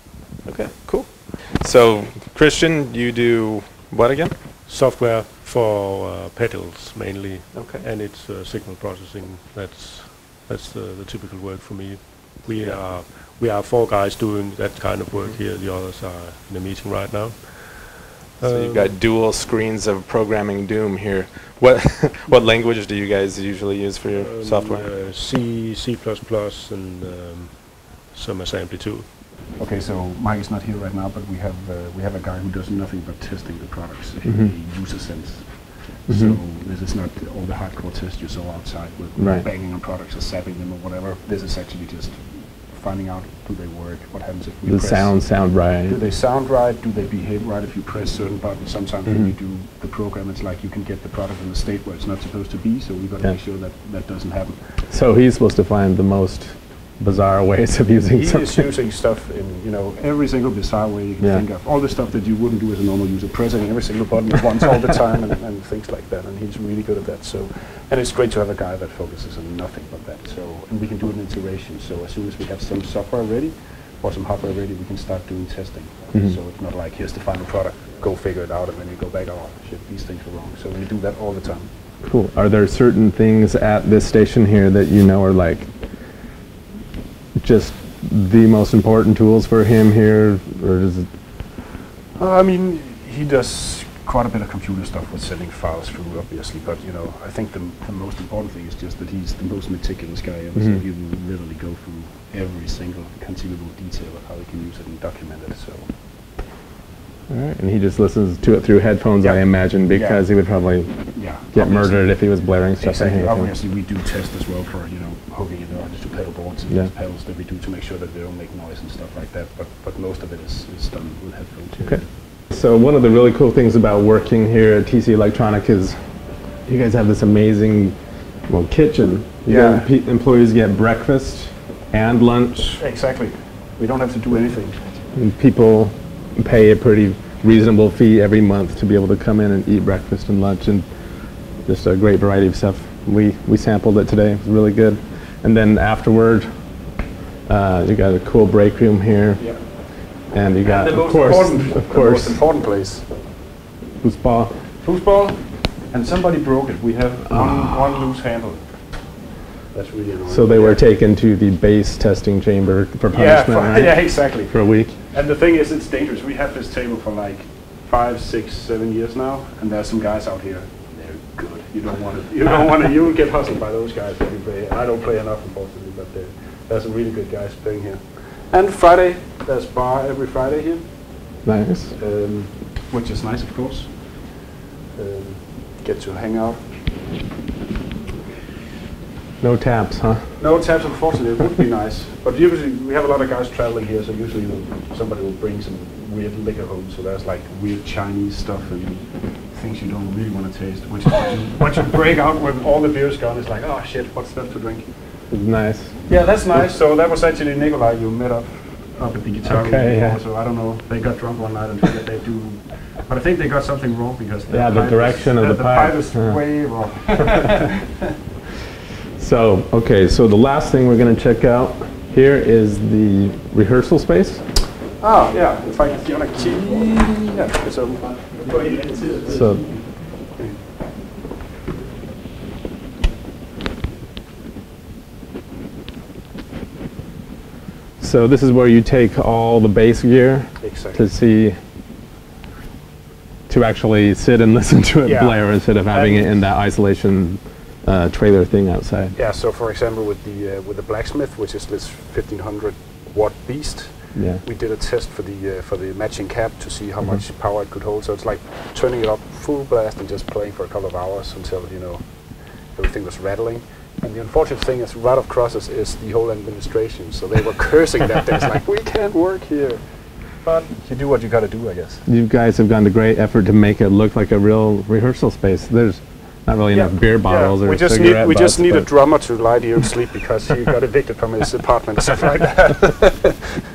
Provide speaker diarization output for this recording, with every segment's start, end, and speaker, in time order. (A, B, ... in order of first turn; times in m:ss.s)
0:00.4-0:04.4 A
0:04.6-0:19.0 B
0:07.5-0:07.9 A
0:12.5-0:12.9 A
0:15.1-0:15.4 A
0:18.4-0:24.9 A
0:24.1-0:29.1 B
0:29.6-0:54.7 C
0:34.2-0:34.5 A
0:36.1-0:36.4 A
0:39.2-0:39.5 A
0:44.6-0:46.0 A
0:49.1-0:49.3 A
0:54.8-0:58.7 A
0:58.1-1:21.7 C
1:01.2-1:01.5 A
1:16.1-1:16.4 A
1:22.0-1:26.3 A
1:27.4-1:31.1 A
1:32.1-1:45.9 C
1:40.6-1:40.8 A
1:47.3-1:53.5 A
1:49.2-1:50.4 C
1:50.9-2:02.1 C
2:01.8-2:12.8 A
2:09.4-2:09.9 C
2:12.7-2:15.0 C
2:15.1-2:32.4 A
2:29.4-2:29.9 C
2:30.6-2:33.1 C
2:34.0-2:34.7 A
2:34.8-2:39.1 C
2:37.3-2:37.9 A
2:39.7-2:40.8 C
2:40.3-2:45.0 A
2:43.1-3:01.4 C
3:01.4-3:02.0 A
3:01.9-3:07.1 C
3:09.4-3:10.8 A
3:10.4-3:24.9 C
3:25.3-3:26.0 A
3:26.0-3:37.8 C
3:29.4-3:30.2 A
3:34.5-3:36.4 A
3:39.2-3:44.5 A
3:45.0-3:50.7 C
3:49.2-3:49.7 A
3:58.0-4:01.6 A
4:00.6-4:01.1 C
4:03.5-4:09.2 A
4:05.0-4:06.5 C
4:09.1-4:32.0 C
4:14.1-4:14.4 A
4:32.0-4:39.6 A
4:36.7-4:43.4 C